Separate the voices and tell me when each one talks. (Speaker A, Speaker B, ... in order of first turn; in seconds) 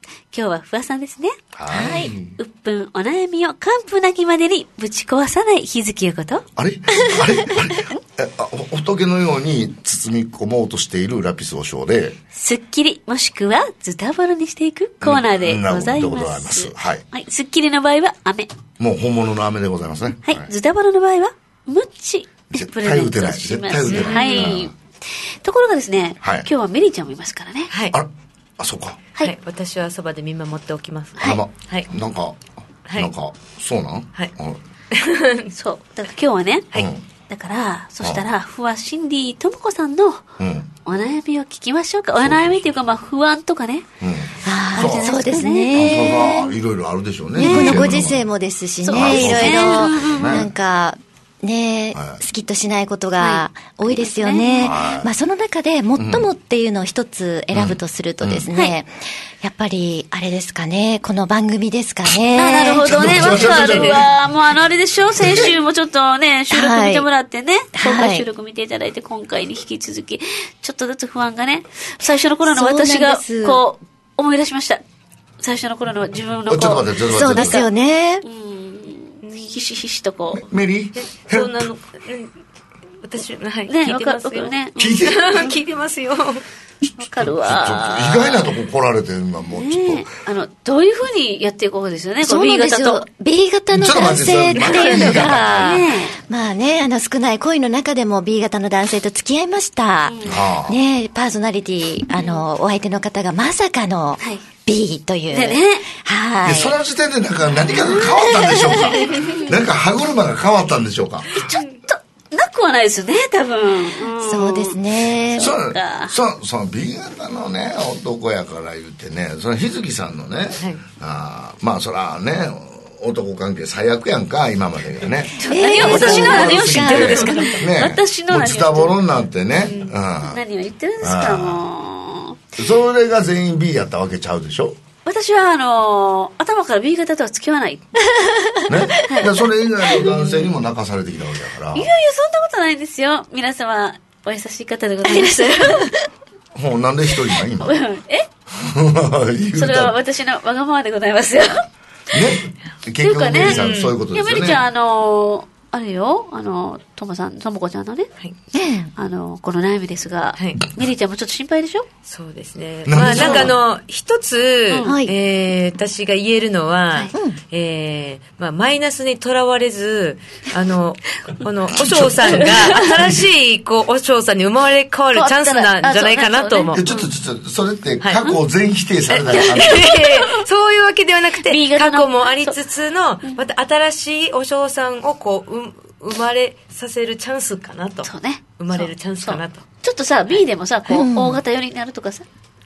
Speaker A: 0.3-1.3, 2.4-6.4, 12.3-18.5, 20.2-27.7, 35.5-36.7, 37.3-40.3, 40.8-43.9, 44.7-46.1, 47.4-48.0, 48.8-50.4, 53.2-54.7, 62.3-74.8, 75.4-77.7, 78.2-80.5, 83.7-85.6, 87.0-88.5, 89.5-93.0, 95.5-96.1, 100.0-100.4, 102.2-102.4, 105.3-105.9, 107.8-108.1, 108.9-109.5, 111.3-116.1, 125.4-128.9, 130.2-132.4, 135.1-137.8, 139.1-140.5, 141.7-145.9, 147.6-148.3, 149.6-152.2, 153.0-158.1, 158.9-161.9, 163.1-163.5, 164.7-165.0, 172.4-172.9, 175.1-177.1, 179.3-180.4, 181.4-182.6, 188.0-192.2
Speaker B: 1.5-2.3, 6.5-12.2, 15.0-17.0, 18.8-20.5, 22.5-24.7, 26.2-26.5, 27.9-29.0, 31.2-34.6, 36.7-37.0, 40.4-40.7, 42.2-42.7, 44.0-48.3, 48.9-50.5, 51.9-52.2, 54.6-55.1, 56.0-56.3, 57.5-58.5, 62.8-64.1, 65.2-65.5, 76.5-77.6, 80.3-81.7, 84.8-85.4, 86.8-90.0, 93.7-95.8, 100.2-100.8, 106.4-111.5, 115.3-130.4, 131.0-131.6, 132.6-134.8, 138.7-141.9, 146.5-147.8, 148.5-150.0, 152.1-154.6, 162.8-163.6, 171.7-173.2, 176.7-180.0
Speaker C: 1.7-2.1, 44.4-46.5, 47.3-63.5, 66.5-67.1, 67.7-68.3, 72.4-73.6, 77.1-78.2, 92.2-106.8, 108.0-108.9, 114.2-115.5, 125.4-127.5, 138.1-138.8, 145.0-146.1, 158.5-158.9, 164.8-165.1, 190.9-191.4
Speaker D: 23.9-24.5, 27.7-27.9, 29.2-31.9, 34.9-35.5, 79.2-79.5, 81.0-82.3, 83.0-86.4, 94.5-95.3, 125.8-126.3, 126.9-127.5, 129.7-129.9, 153.4-153.9, 162.0-176.8, 179.1-189.6